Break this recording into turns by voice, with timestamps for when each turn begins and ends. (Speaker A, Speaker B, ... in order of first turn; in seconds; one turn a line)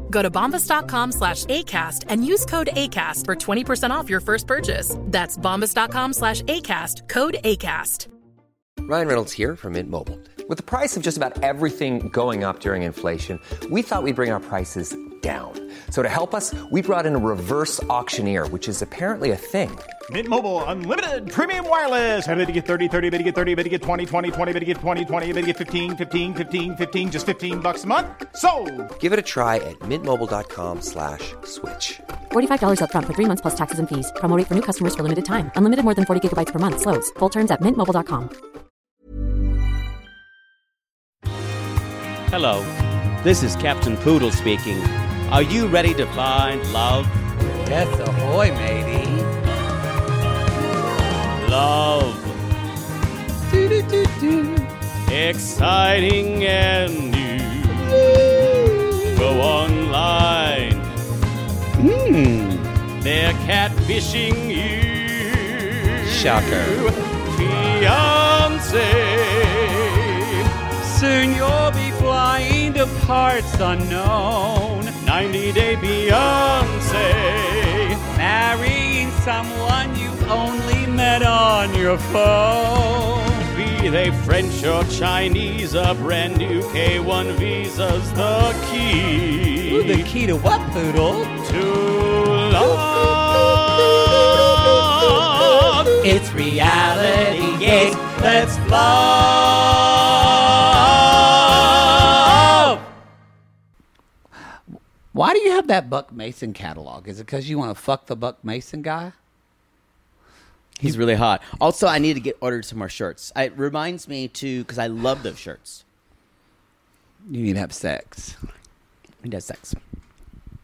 Speaker A: 0.1-8.1
Speaker B: 8.8-19.9
Speaker C: 20.1-28.9
Speaker B: 29.0-32.0
Speaker D: 32.3-38.3
Speaker E: 43.2-44.8
Speaker E: 45.3-45.6
Speaker F: 45.4-47.1
Speaker G: 47.5-49.3
Speaker F: 51.4-52.3
Speaker G: 53.5-54.7
Speaker F: 55.1-57.6
Speaker G: 57.9-59.3
Speaker F: 59.2-60.8
Speaker G: 61.8-62.7
Speaker F: 63.0-65.6
Speaker G: 66.0-66.9
Speaker F: 67.4-69.8
Speaker G: 70.8-75.0
Speaker F: 75.1-77.4
Speaker G: 78.1-83.5
Speaker F: 83.6-89.3
Speaker G: 89.7-91.3
Speaker F: 91.5-92.6
Speaker E: 92.6-93.5
Speaker G: 92.6-98.6
Speaker G: 105.1-109.1
Speaker E: 110.8-115.8
Speaker G: 117.2-118.4
Speaker E: 119.2-119.8